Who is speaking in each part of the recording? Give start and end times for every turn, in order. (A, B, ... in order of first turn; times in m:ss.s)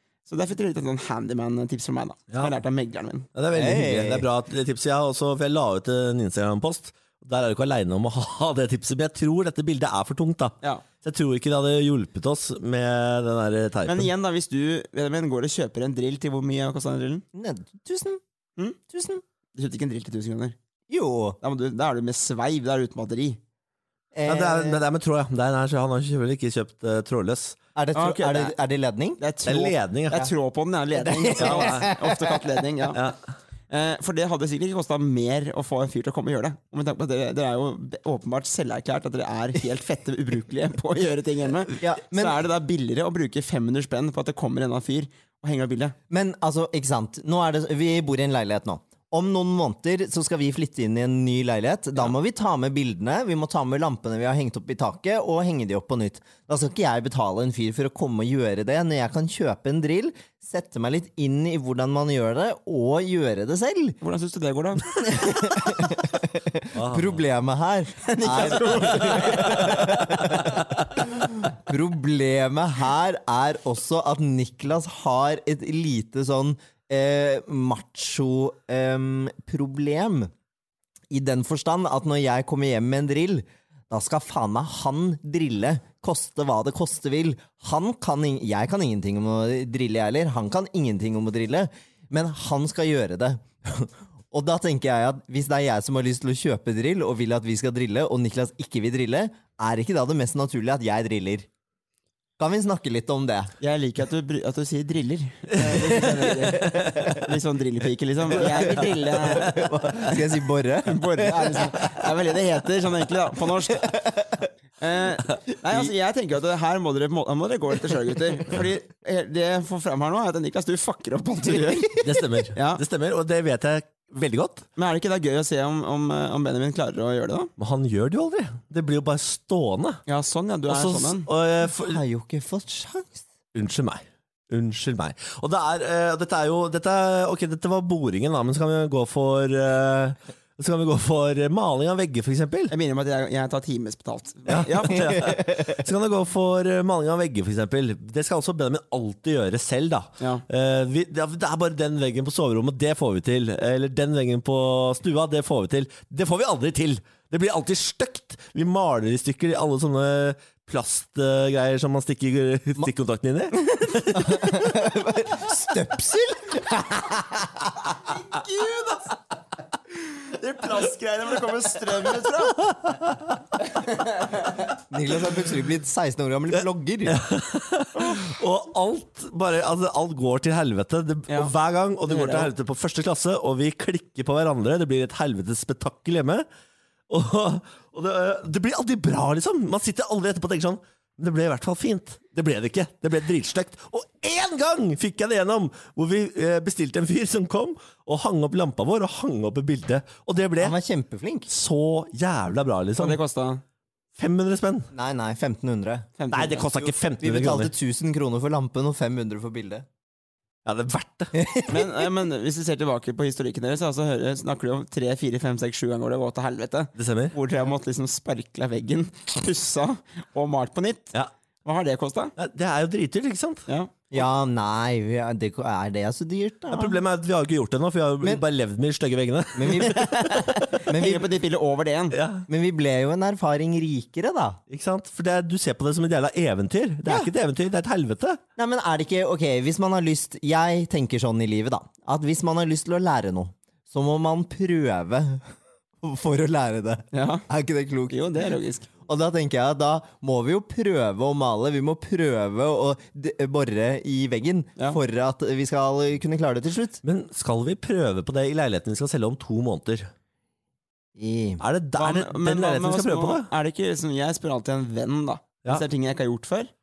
0:00.3-0:03.3 A
0:03.3-0:14.1 B
0:03.5-0:04.3 C
0:13.8-0:17.2 A
0:17.3-0:18.2 C
0:18.9-0:19.2 C
0:19.5-0:20.5 A
0:20.9-0:21.4 C
0:21.4-0:23.4 A
0:24.1-0:24.8 C
0:24.2-0:27.6 B
0:27.7-0:29.2 C
0:27.9-0:28.5 A
0:29.2-0:33.0 A
0:29.4-0:30.3 B
0:31.0-0:32.4 C
0:31.4-0:31.9 B
0:32.9-0:33.2 B
0:33.7-0:45.9 A
0:41.8-0:42.4 C
0:46.1-1:04.0 C
1:04.0-1:05.0 A
1:05.0-1:20.3 C
1:06.7-1:07.2 B
1:08.0-1:10.0 A
1:09.0-1:10.8 B
1:21.1-1:41.5 C
1:42.4-1:43.5 C
1:43.6-1:50.2 A
1:45.5-1:47.2 B
1:46.5-1:47.2 C
1:48.4-1:49.8 B
1:48.7-1:51.9 C
1:50.8-1:54.0 A
1:54.0-1:54.3 C
1:54.8-2:02.8 A
2:02.0-2:04.6 B
2:04.8-2:07.5 A
2:07.6-2:10.0 B
2:10.1-2:11.3 A
2:10.7-2:12.0 B
2:11.7-2:13.2 C
2:13.5-2:22.7 B
2:22.7-2:25.2 A
2:24.4-2:44.8 B
2:30.2-2:30.4 A
2:44.1-2:47.8 C
2:48.1-2:49.1 A
2:49.9-2:52.7 A
2:52.7-2:53.4 B
2:53.7-2:54.7 A
2:54.9-2:57.2 C
2:56.5-3:06.4 B
2:58.0-2:58.2 A
3:01.3-3:01.5 A
3:02.1-3:02.5 A
3:07.1-3:20.7 B
3:20.6-3:21.5 C
3:21.5-3:23.2 B
3:23.0-3:23.6 A
3:24.2-3:24.9 B
3:24.9-3:26.1 C
3:26.2-3:26.9 A
3:26.3-3:27.7 B
3:27.2-3:29.8 C
3:30.6-3:31.3 B
3:31.3-3:32.0 C
3:31.7-3:42.3 A
3:37.0-3:37.3 B
3:42.4-3:43.6 B
3:43.7-3:44.0 A
3:44.1-3:47.0 C
3:46.7-3:50.5 B
3:49.5-3:51.3 C
3:50.0-3:52.2 A
3:52.1-3:52.4 B
3:52.5-3:54.6 C
3:54.7-3:58.4 B
3:58.6-4:05.4 C
4:06.0-4:08.2 C
4:07.1-4:07.4 A
4:08.1-4:08.9 A
4:09.0-4:17.0 C
4:17.0-4:20.1 B
4:21.2-4:21.6 C
4:21.6-4:23.5 B
4:22.0-4:26.7 A